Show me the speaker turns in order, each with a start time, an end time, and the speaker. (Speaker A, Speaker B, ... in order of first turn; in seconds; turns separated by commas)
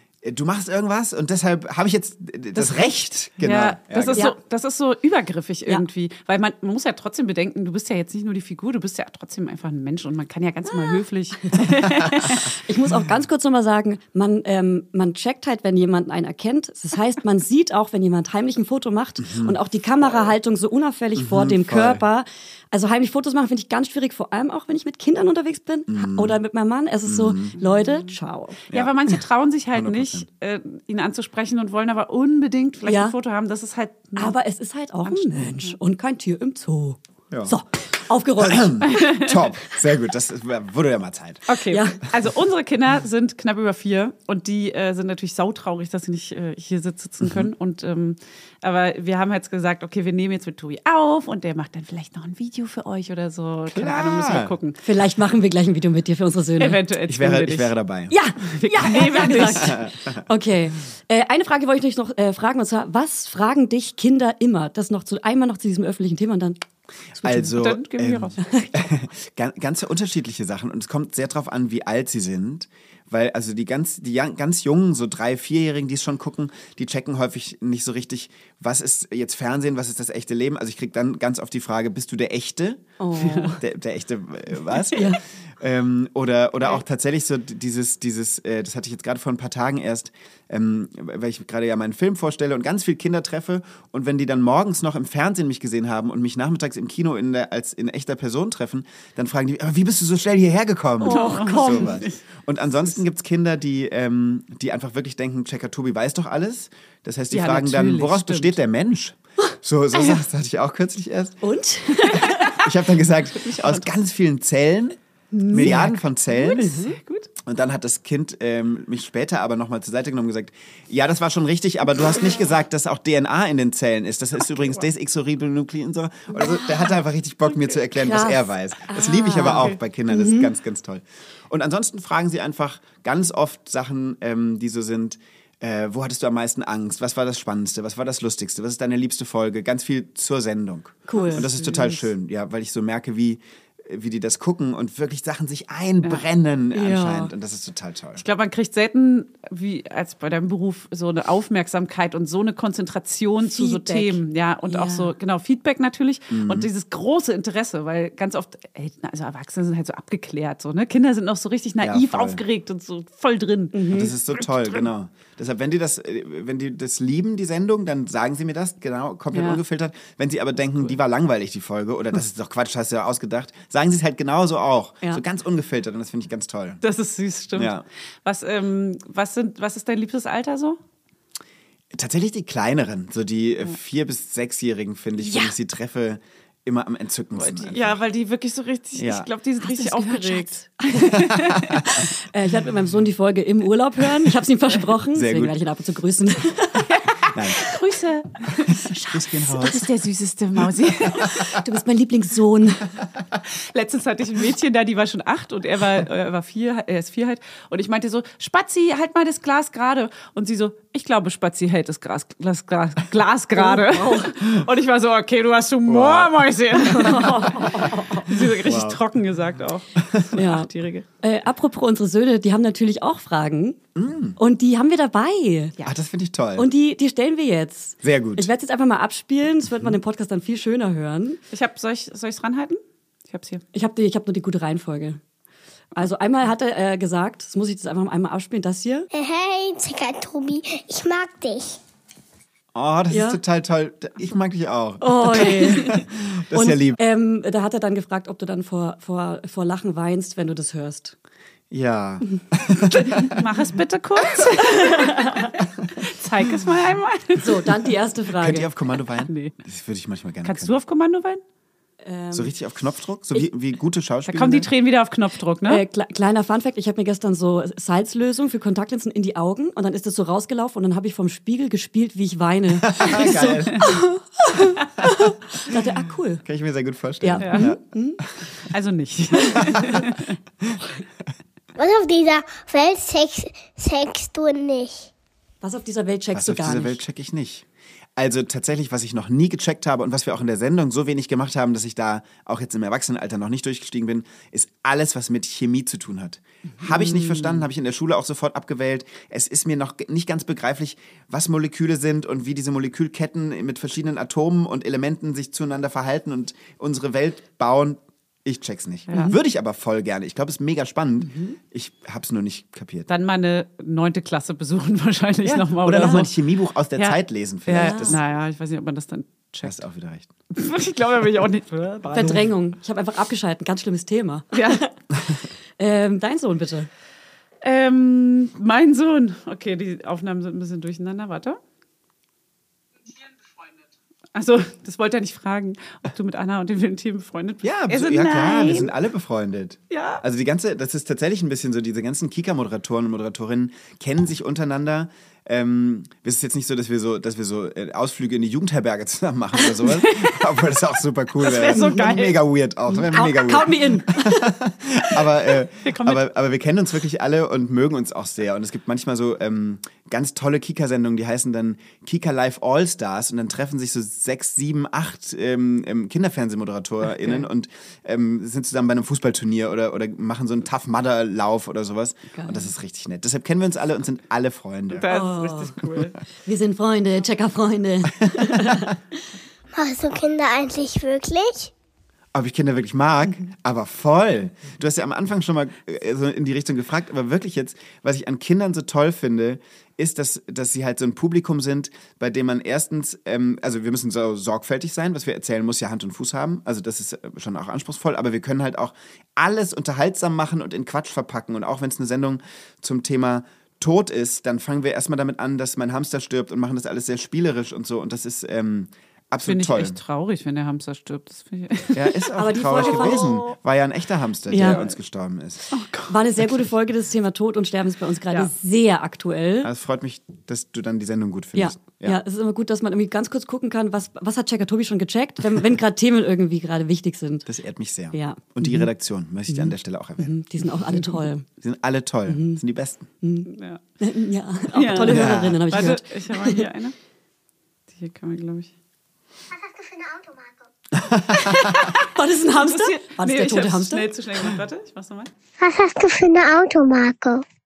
Speaker A: 0.2-4.3, Speaker B: 3.4-12.5, Speaker C: 11.5-28.6, Speaker A: 19.2-19.6, Speaker A: 21.2-22.0, Speaker A: 25.9-26.4, Speaker A: 27.1-27.6, Speaker B: 28.7-34.3, Speaker A: 29.7-30.3, Speaker C: 32.9-33.1, Speaker C: 34.2-38.9, Speaker B: 35.0-35.8, Speaker A: 37.3-37.6, Speaker A: 38.4-41.5, Speaker B: 38.9-39.4, Speaker B: 41.5-54.8, Speaker C: 41.7-42.0, Speaker A: 53.7-54.5, Speaker C: 54.8-56.8, Speaker B: 56.6-57.7, Speaker A: 57.1-58.2, Speaker C: 58.1-66.6, Speaker B: 58.5-59.8, Speaker A: 59.0-59.9, Speaker C: 67.2-67.6, Speaker A: 67.2-111.4, Speaker B: 67.5-68.4, Speaker C: 68.4-68.8, Speaker C: 83.0-83.6, Speaker C: 84.7-85.2, Speaker C: 101.0-102.0, Speaker B: 101.1-102.2, Speaker B: 107.3-108.6, Speaker C: 111.4-112.6, Speaker A: 112.4-115.0, Speaker B: 113.4-113.9, Speaker B: 115.3-117.3, Speaker C: 115.5-116.0, Speaker A: 115.5-116.8, Speaker C: 116.6-117.0, Speaker A: 117.4-148.2, Speaker C: 126.3-126.7, Speaker C: 128.0-130.5, Speaker B: 129.4-129.7, Speaker C: 141.1-141.5, Speaker B: 141.2-142.1, Speaker C: 146.7-147.3, Speaker B: 148.2-164.9, Speaker C: 153.4-155.1, Speaker A: 156.3-156.7, Speaker A: 161.8-162.4, Speaker C: 163.7-164.1, Speaker A: 163.9-176.8, Speaker B: 169.3-169.6, Speaker B: 176.8-180.8, Speaker A: 177.6-177.8, Speaker A: 181.9-188.0, Speaker B: 187.3-191.8, Speaker A: 189.0-189.3, Speaker C: 189.6-197.2, Speaker A: 190.9-192.0, Speaker A: 195.1-195.6, Speaker B: 196.9-198.9, Speaker A: 197.3-197.7, Speaker A: 198.7-199.9, Speaker B: 199.5-201.3, Speaker C: 201.2-202.9, Speaker B: 203.6-217.6, Speaker C: 213.6-214.3, Speaker A: 215.9-216.4, Speaker C: 216.8-218.3, Speaker B: 218.2-221.1, Speaker A: 218.3-219.0, Speaker A: 220.0-220.3, Speaker C: 220.3-220.7, Speaker C: 221.2-223.8, Speaker A: 223.9-224.4, Speaker C: 224.4-225.8, Speaker A: 225.8-226.7, Speaker C: 226.6-231.4, Speaker A: 228.0-228.5, Speaker B: 231.5-233.6, Speaker C: 233.7-235.2, Speaker C: 236.0-239.1, Speaker D: 239.1-241.8, Speaker A: 242.8-247.0, Speaker C: 243.1-243.4, Speaker C: 245.0-251.2, Speaker A: 251.7-253.4, Speaker B: 253.0-257.7, Speaker C: 254.8-255.5, Speaker C: 257.4-258.7, Speaker A: 258.4-260.8, Speaker B: 259.2-259.6, Speaker B: 260.4-261.4, Speaker C: 262.0-262.5, Speaker A: 262.3-264.7, Speaker B: 264.3-265.8, Speaker C: 265.7-276.4, Speaker A: 272.8-274.0, Speaker A: 275.0-275.8, Speaker A: 276.4-277.8, Speaker C: 277.2-278.2, Speaker B: 277.4-277.7, Speaker B: 278.7-280.4, Speaker A: 279.5-280.1, Speaker D: 281.8-285.1, Speaker C: 285.6-287.0, Speaker A: 286.3-313.1, Speaker B: 309.1-309.4, Speaker C: 309.1-309.4, Speaker C: 311.3-311.6, Speaker B: 313.1-316.4, Speaker A: 315.4-318.2, Speaker B: 317.0-319.8, Speaker C: 317.8-318.1, Speaker A: 319.6-320.3, Speaker B: 320.5-322.5, Speaker C: 322.1-324.9, Speaker B: 324.5-324.9, Speaker C: 325.8-326.9, Speaker B: 327.6-331.6, Speaker B: 334.4-338.9, Speaker A: 337.6-375.1, Speaker B: 339.9-340.2, Speaker B: 350.0-350.4, Speaker B: 351.4-352.4, Speaker C: 351.7-352.0, Speaker C: 352.9-354.4, Speaker B: 355.8-356.2, Speaker C: 372.3-372.7, Speaker B: 374.9-376.2, Speaker C: 375.1-375.8, Speaker C: 376.4-379.0, Speaker A: 378.2-378.9, Speaker D: 379.8-381.7, Speaker A: 382.3-410.0, Speaker B: 409.4-413.4, Speaker A: 411.9-415.7, Speaker C: 412.4-413.5, Speaker C: 414.5-414.8, Speaker B: 414.6-414.9, Speaker B: 415.7-416.1, Speaker C: 416.1-419.7, Speaker A: 419.6-422.2, Speaker C: 421.6-427.5, Speaker A: 427.5-430.3, Speaker C: 428.1-428.9, Speaker C: 429.5-431.5, Speaker A: 431.6-433.1, Speaker C: 432.3-432.6, Speaker C: 433.2-436.7, Speaker B: 433.5-433.8, Speaker B: 434.7-436.9, Speaker A: 435.1-435.6, Speaker B: 437.9-438.7, Speaker D: 439.5-440.7, Speaker A: 440.9-441.9, Speaker B: 441.4-445.3, Speaker C: 442.0-444.1, Speaker D: 445.6-447.4